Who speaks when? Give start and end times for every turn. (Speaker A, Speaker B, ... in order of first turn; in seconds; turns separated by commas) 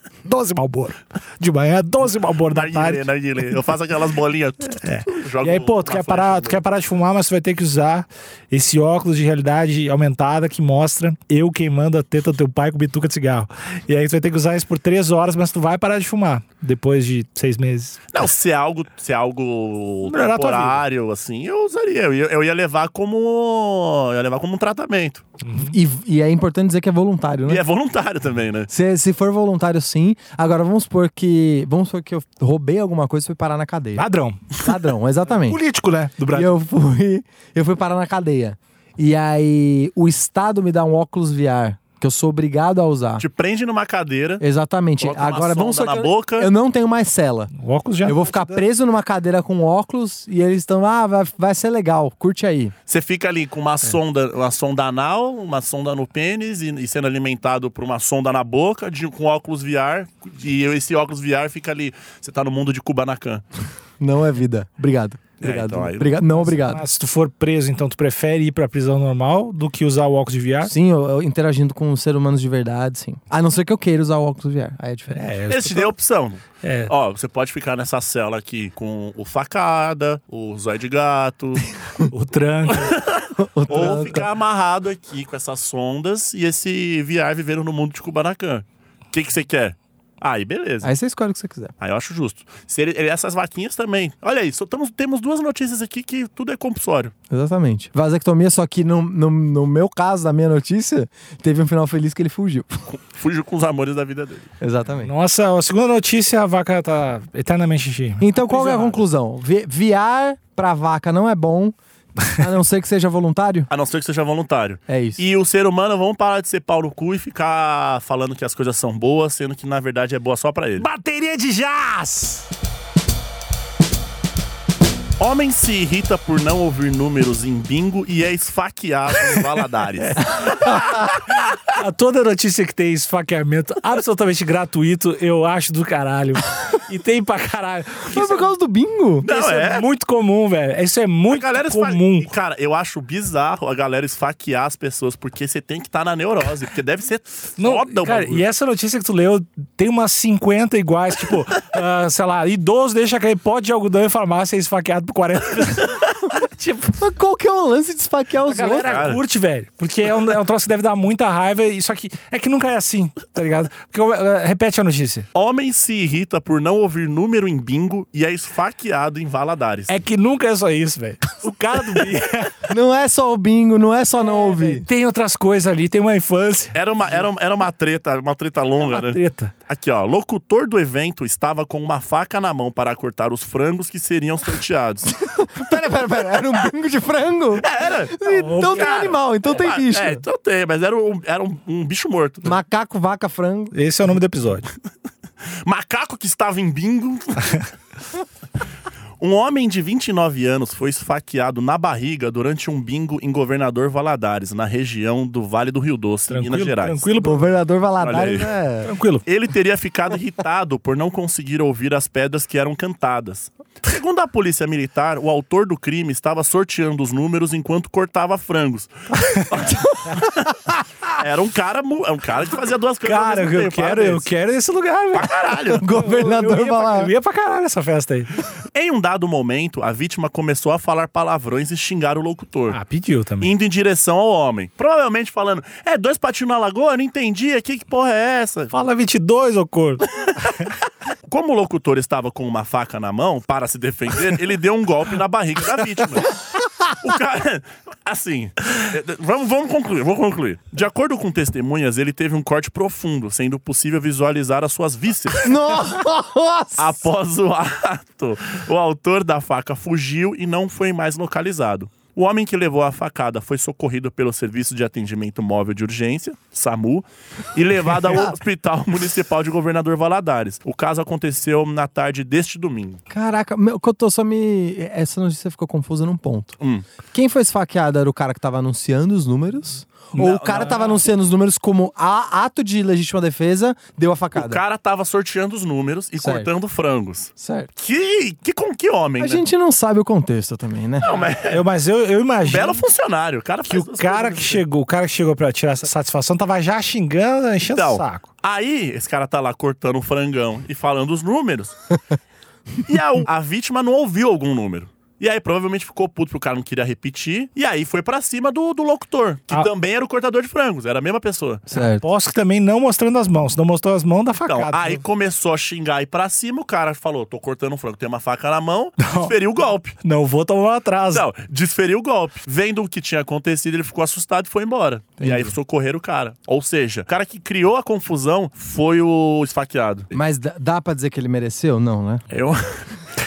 Speaker A: 0.2-3.0, Speaker B: 2.5-6.6, Speaker A: 4.8-18.1, Speaker B: 18.1-25.2, Speaker A: 20.1-20.8, Speaker A: 25.4-25.7, Speaker C: 25.6-27.6, Speaker B: 27.4-28.7, Speaker C: 28.7-35.6, Speaker A: 34.0-34.5, Speaker A: 35.4-36.5, Speaker C: 36.3-43.2, Speaker B: 43.2-44.4, Speaker C: 44.4-47.5, Speaker B: 45.0-46.5, Speaker A: 47.5-48.6, Speaker C: 48.0-52.7, Speaker B: 52.9-63.4, Speaker C: 64.0-66.8, Speaker B: 65.4-66.2, Speaker A: 66.3-70.7, Speaker C: 70.6-75.2, Speaker A: 75.1-75.9, Speaker B: 75.5-81.7, Speaker A: 76.6-76.9, Speaker A: 82.1-83.0, Speaker B: 82.7-90.9, Speaker C: 83.4-84.2, Speaker C: 90.8-91.7, Speaker B: 91.8-97.1, Speaker C: 97.3-102.8, Speaker B: 102.9-104.5, Speaker C: 104.6-105.1, Speaker A: 105.0-109.0, Speaker C: 108.2-113.7, Speaker B: 113.7-120.8, Speaker C: 114.9-115.2, Speaker A: 120.8-122.4, Speaker B: 125.2-130.9, Speaker C: 130.4-131.1, Speaker A: 131.7-138.5, Speaker C: 138.1-139.4, Speaker B: 139.2-139.8, Speaker A: 139.3-142.3, Speaker B: 141.3-148.4, Speaker A: 147.6-155.9, Speaker A: 156.6-156.9, Speaker C: 156.9-158.9, Speaker A: 158.5-165.2, Speaker B: 158.8-159.2, Speaker B: 165.3-169.9, Speaker A: 169.9-172.5, Speaker C: 172.7-174.8, Speaker A: 174.2-176.8, Speaker B: 176.7-185.2, Speaker A: 178.9-179.5, Speaker C: 185.2-190.2, Speaker B: 187.6-192.6, Speaker A: 188.2-189.1, Speaker C: 192.4-193.7, Speaker A: 193.7-194.7, Speaker B: 195.6-197.6, Speaker B: 199.2-207.1, Speaker A: 206.3-207.5, Speaker C: 207.2-208.9, Speaker B: 208.0-208.5, Speaker A: 208.8-209.2, Speaker B: 209.2-220.5, Speaker A: 219.2-219.5, Speaker B: 221.1-224.3, Speaker A: 223.0-228.4, Speaker B: 225.1-225.9, Speaker C: 225.8-227.1, Speaker B: 228.7-232.8, Speaker A: 232.7-233.5, Speaker B: 233.4-238.7, Speaker A: 238.7-240.7, Speaker B: 241.2-246.3, Speaker B: 247.0-255.5, Speaker C: 255.4-256.9, Speaker B: 256.8-273.0, Speaker C: 273.1-276.6, Speaker B: 276.6-276.9, Speaker C: 277.1-284.6, Speaker B: 280.1-281.0, Speaker B: 284.3-289.4, Speaker C: 286.2-286.5, Speaker C: 287.4-287.7, Speaker C: 289.2-291.2, Speaker B: 291.0-291.6, Speaker A: 291.5-292.8, Speaker B: 292.4-294.6, Speaker A: 293.7-298.2, Speaker B: 297.7-301.9, Speaker B: 302.8-311.7, Speaker C: 311.7-312.0, Speaker A: 311.7-315.0, Speaker B: 314.5-320.0, Speaker A: 319.0-319.3, Speaker A: 320.0-321.2, Speaker B: 321.1-330.1, Speaker C: 325.2-325.6, Speaker C: 330.1-332.2, Speaker B: 332.3-332.9